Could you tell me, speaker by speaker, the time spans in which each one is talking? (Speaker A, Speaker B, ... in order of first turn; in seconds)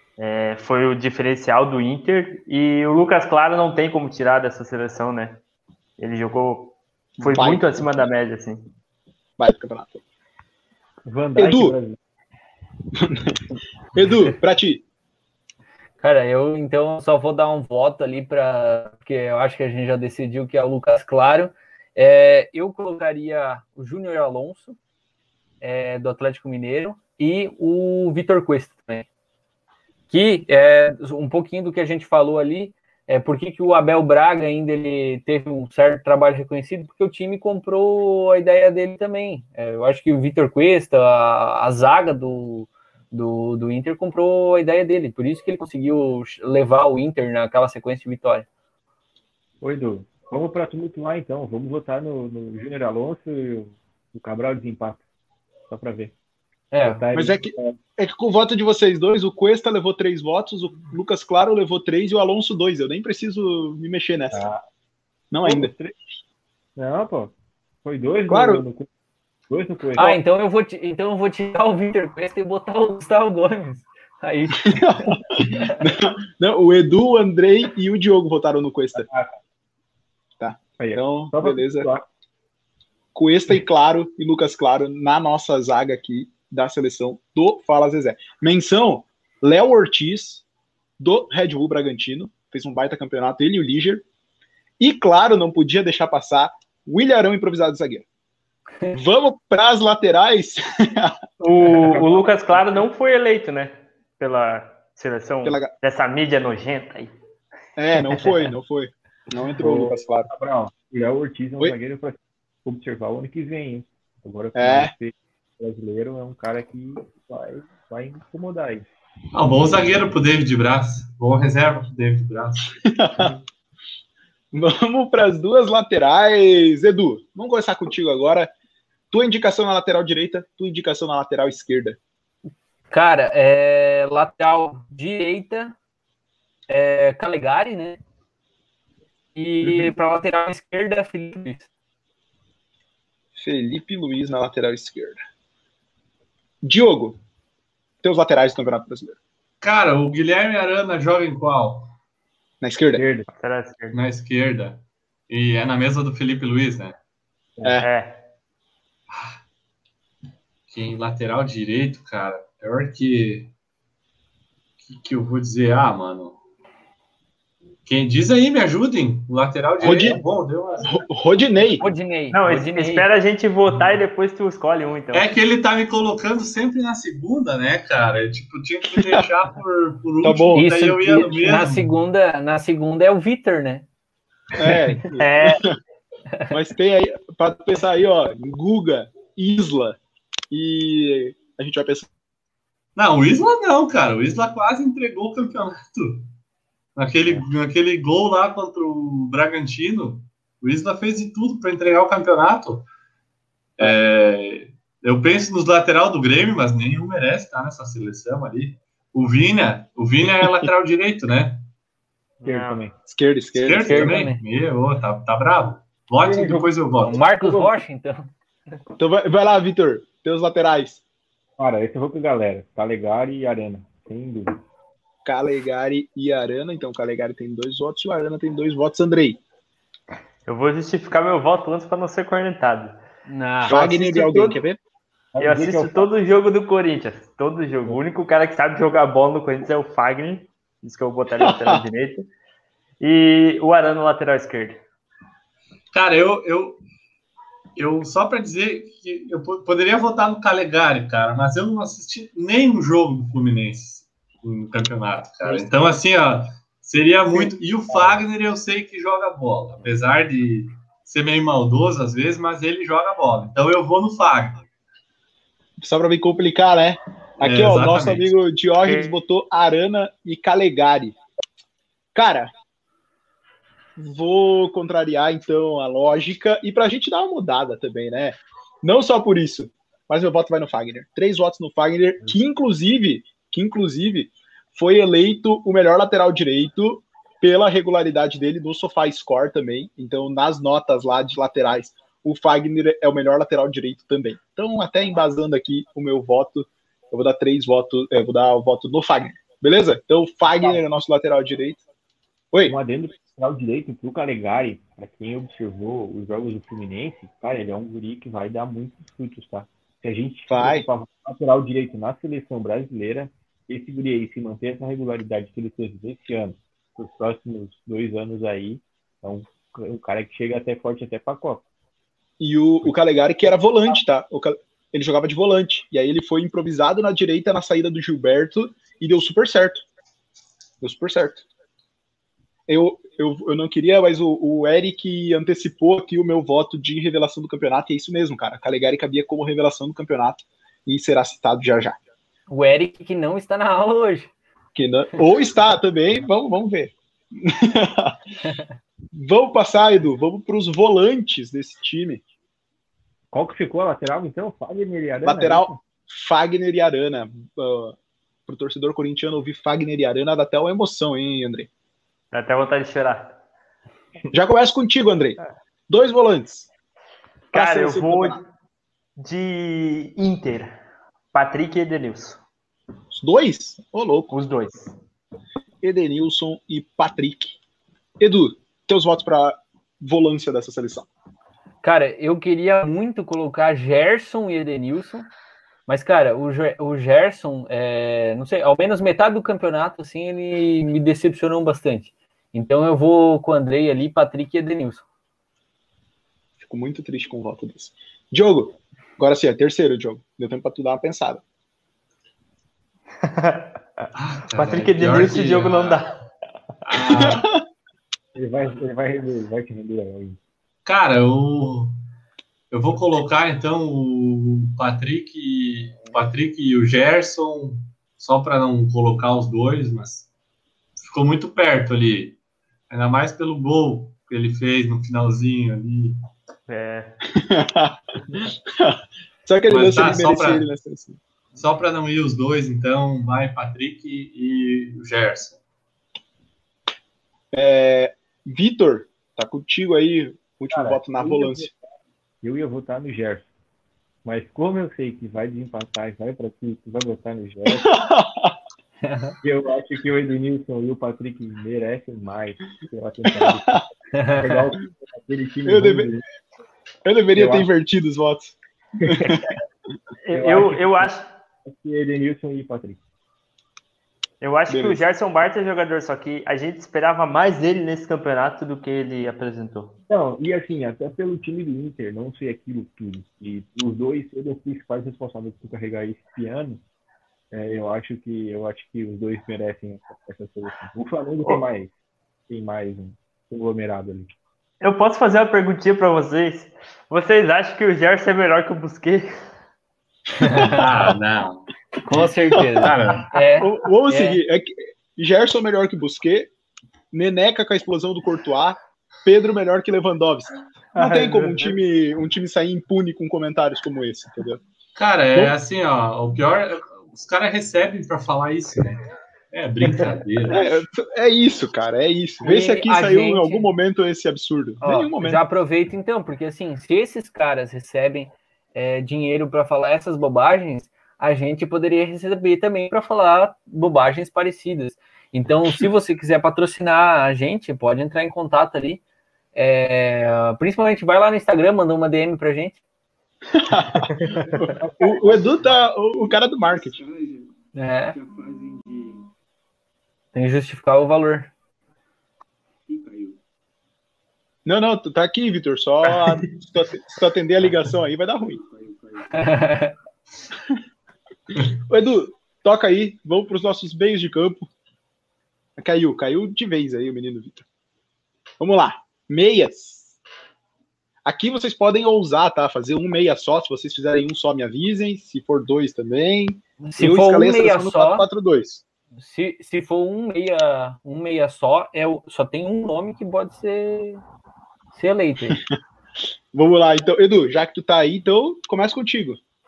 Speaker A: 0.2-5.4, 6.0-8.7, 101.4-107.1, 153.4-154.0, 157.8-158.2, 172.3-175.3, 185.2-185.6, 212.4-212.8, 230.4-233.0, 235.4-242.3, 243.0-244.8, 268.8-269.1, 362.3-363.4, 367.5-368.4, 369.2-370.7, 371.3-372.4, 374.3-374.9, 403.2-406.1, 426.7-427.2, 459.2-459.5, 460.2-461.3, 464.4-469.9, 484.8-489.3, 500.9-501.8, 534.1-534.6
Speaker B: 7.2-7.8, 9.4-10.0, 11.4-11.7, 12.9-13.4, 13.9-14.8, 57.1-64.4, 65.3-65.7, 68.3-68.6, 74.7-79.0, 80.4-81.9, 83.1-90.4, 91.0-94.0, 94.8-98.0, 98.9-101.1, 105.4-105.7, 107.8-110.3, 114.5-114.9, 122.8-123.3, 124.5-128.5, 129.1-132.0, 143.3-145.2, 146.6-147.2, 148.0-149.2, 152.6-153.0, 169.8-170.2, 170.8-171.9, 180.2-181.6, 184.6-185.8, 186.5-190.0, 190.5-192.1, 213.1-214.2, 219.0-221.0, 225.2-229.4, 233.7-234.8, 241.4-241.8, 265.8-271.2, 272.1-272.5, 274.0-301.8, 310.5-310.9, 322.4-329.8, 330.8-331.4, 332.7-342.0, 344.7-348.2, 349.1-352.2, 355.2-357.9, 358.5-361.7, 364.3-365.4, 365.9-366.7, 367.5-368.4, 373.1-374.3, 375.8-377.5, 378.2-381.1, 396.6-401.4, 407.1-407.6, 427.3-431.2, 437.5-441.7, 447.7-448.5, 453.4-453.8, 455.7-456.1, 457.0-459.6, 464.7-465.0, 493.6-496.5, 497.1-504.6, 510.5-515.4, 533.5-537.0, 544.6-548.6, 551.9-554.7, 555.8-557.6, 558.6-560.1, 561.2-568.8, 576.5-579.4
Speaker C: 11.1-12.0, 49.6-55.0, 55.7-56.1, 56.8-57.8, 64.3-64.6, 65.4-66.0, 66.8-67.3, 67.8-68.9, 69.5-70.2, 78.9-79.3, 80.8-82.0, 101.7-102.8, 109.6-118.9, 152.9-153.3, 212.4-212.9, 216.2-217.7, 221.6-224.6, 235.3-236.1, 302.6-321.6, 353.3-355.8, 408.3-410.4, 440.7-441.7, 442.4-443.5, 444.2-447.9, 449.4-456.2, 457.3-457.7, 460.3-461.1, 461.6-463.0, 470.1-476.8, 477.5-481.9, 482.5-484.3, 534.6-537.5, 538.1-539.3, 542.9-543.4, 548.5-549.3
Speaker D: 16.0-24.8, 25.6-29.1, 30.1-48.5, 56.7-57.0, 70.0-75.7, 132.9-135.7, 136.7-138.0, 139.3-141.7, 171.8-173.1, 180.5-183.8, 213.7-214.4, 217.0-218.3, 233.3-234.6, 342.5-344.3, 381.8-385.2, 385.9-395.0, 449.0-449.3, 454.1-454.7, 490.4-490.8, 492.1-494.4, 512.4-513.7, 514.8-529.0, 529.5-532.8, 537.7-538.1, 540.3-541.5, 549.3-549.9, 566.8-568.2, 569.2-574.2, 574.9-575.6
Speaker E: 119.3-122.8, 149.6-151.9, 153.9-156.9, 159.1-159.4, 160.7-163.5, 164.8-166.4, 167.8-171.0, 175.1-181.8, 192.9-196.3, 196.9-202.9, 203.8-211.6, 213.5-217.2, 245.9-246.8, 247.8-264.6, 267.4-268.3, 404.1-406.1, 406.8-407.4, 410.9-411.9, 412.7-420.2, 421.0-422.4, 422.9-426.1, 429.7-430.7, 431.6-435.6, 490.6-493.3, 504.9-510.7